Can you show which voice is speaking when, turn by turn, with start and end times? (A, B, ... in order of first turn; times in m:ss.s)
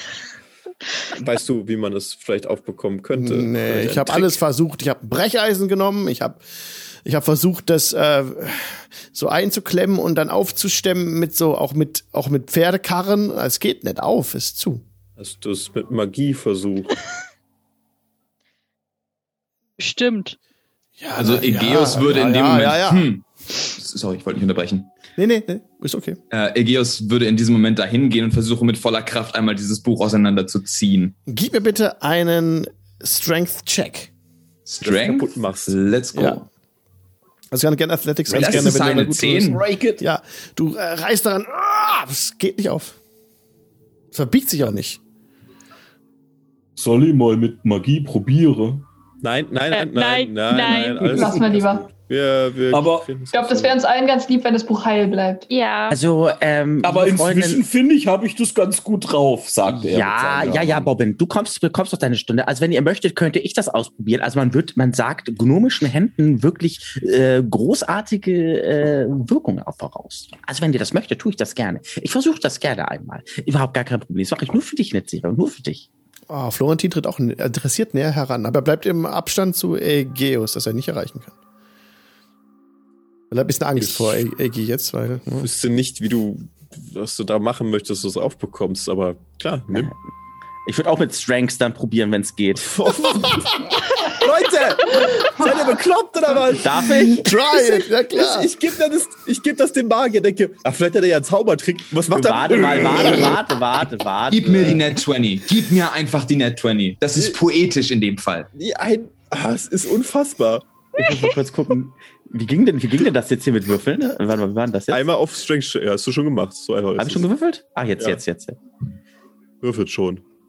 0:01.1-0:04.4 A
0:03.1-0:14.8 B
0:15.2-0:16.9 A
0:19.8-0:20.4 C
0:21.0-0:23.1 B
0:21.2-0:24.9 D
0:25.2-0:26.2 B
0:26.3-0:31.1 D
0:31.3-0:34.1 B
0:34.6-0:36.4 D
0:34.8-0:35.8 A
0:36.1-0:36.4 B
0:37.5-0:43.0 B
0:38.3-0:39.6 D
0:38.4-0:38.8 E
0:39.5-0:40.0 E
0:44.1-0:45.0 B
0:46.8-0:48.8 E
0:49.2-0:53.7 A
0:49.7-0:51.1 C
0:51.1-0:51.9 F
0:52.7-0:53.3 E
0:53.3-0:55.5 F
0:55.5-0:56.0 C
0:55.9-0:57.6 G
0:56.8-1:00.9 E
0:59.7-1:15.8 G
1:16.3-1:21.3 B
1:23.3-1:25.5 B
1:23.8-1:24.2 A
1:25.4-1:29.9 A
1:30.6-1:32.7 G
1:32.6-1:43.5 A
1:36.6-1:37.2 G
1:37.0-1:38.5 B
1:42.1-1:44.8 G
1:44.3-1:48.5 D
1:48.5-1:50.6 A
1:51.0-1:55.0 G
1:54.9-1:57.3 A
1:57.0-1:58.6 G
1:59.6-2:00.2 A